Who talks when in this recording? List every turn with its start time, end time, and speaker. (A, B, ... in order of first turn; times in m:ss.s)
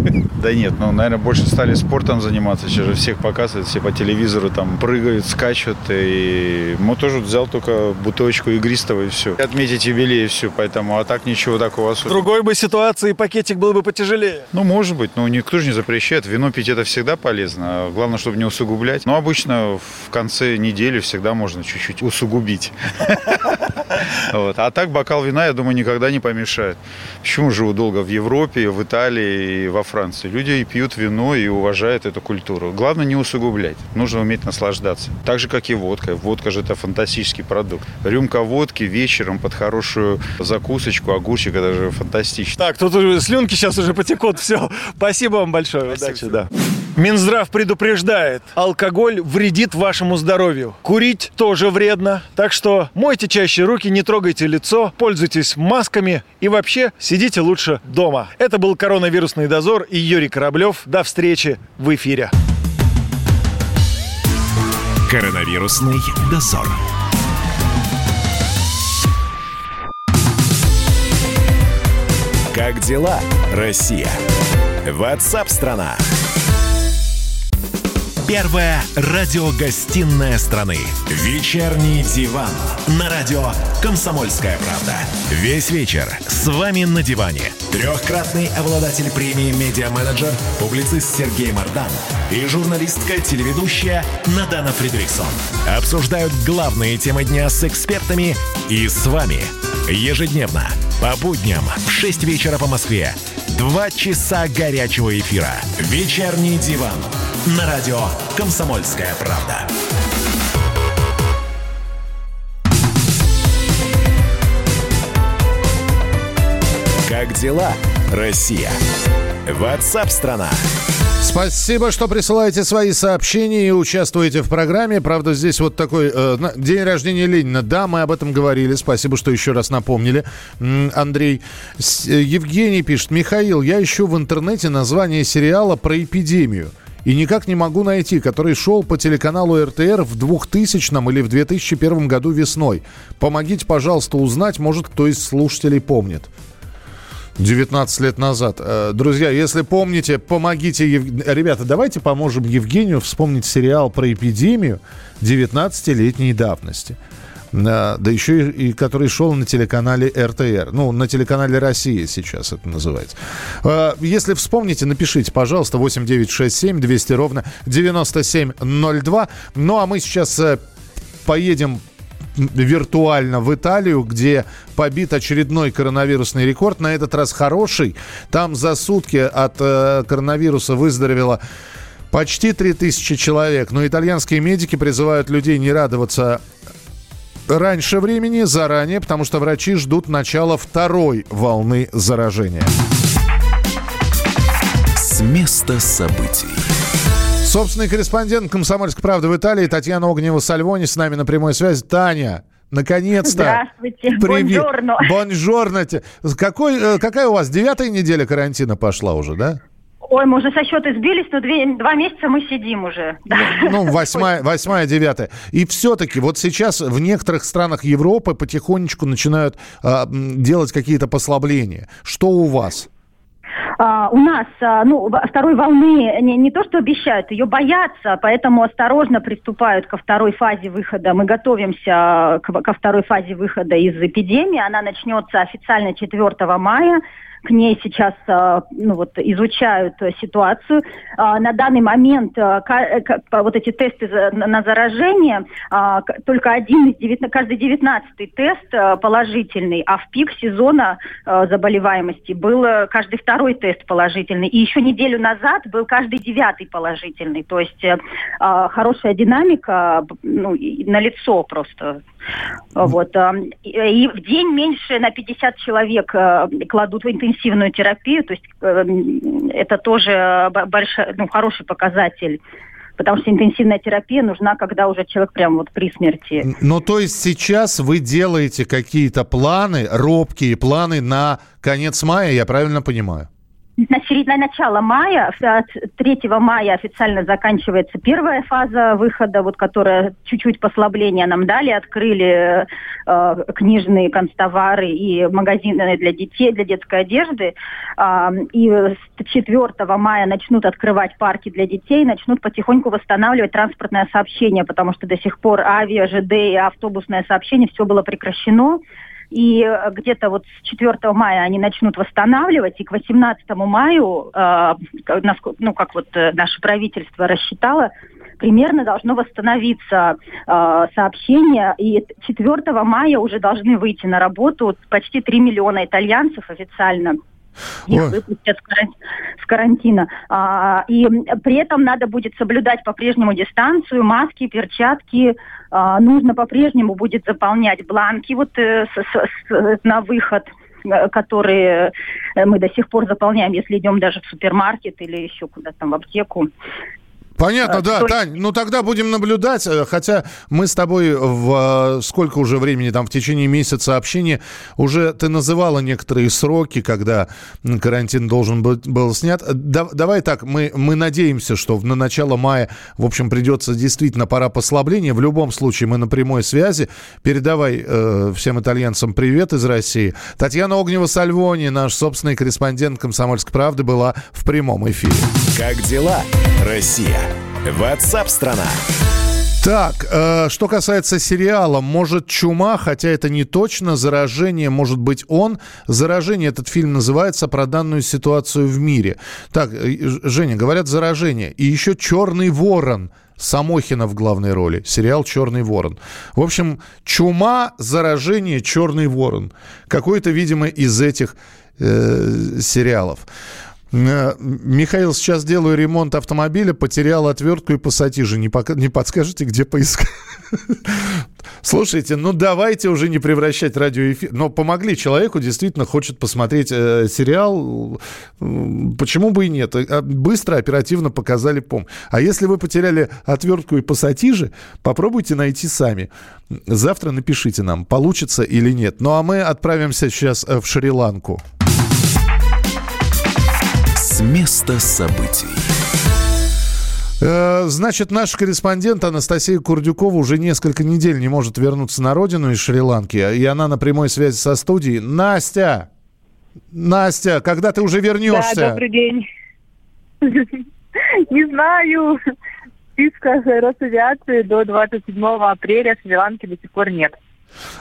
0:00.4-0:12.2 A
0:12.0-0:14.5 B
0:14.5-0:23.3 A
0:24.3-0:42.6 A
0:42.6-1:02.3 B
1:05.1-1:06.8 C
1:12.5-1:14.2 C
1:14.8-1:16.0 C
1:18.2-1:49.7 C
1:57.0-1:58.8 C
1:59.4-2:00.6 C
2:01.2-2:26.3 D
2:27.4-2:37.0 D
2:37.5-2:50.6 D
2:51.2-2:51.8 D
2:52.4-3:01.4 D
3:02.1-3:06.4 D
3:07.5-3:12.7 D
3:15.0-3:16.7 C
3:17.4-3:23.6 D
3:23.2-3:25.1 E
3:24.2-3:29.6 D
3:30.1-3:34.3 E
3:33.3-3:42.9 D
3:43.8-4:22.0 E
4:22.8-4:32.4 E
4:33.0-4:36.5 E
4:36.4-4:43.3 D
4:43.8-5:08.8 E
5:09.3-5:27.2 E
5:27.9-5:46.5 E
5:47.4-6:15.3 D
5:47.7-5:48.1 E
6:15.5-6:18.8 C
6:19.6-6:43.3 D
6:43.9-7:11.4 D
7:14.0-7:15.7 C
7:17.2-7:25.9 D
7:26.7-7:28.8 D
7:28.3-7:29.3 F
7:30.2-7:30.6 F
7:31.3-7:32.2 F
7:33.0-7:37.2 F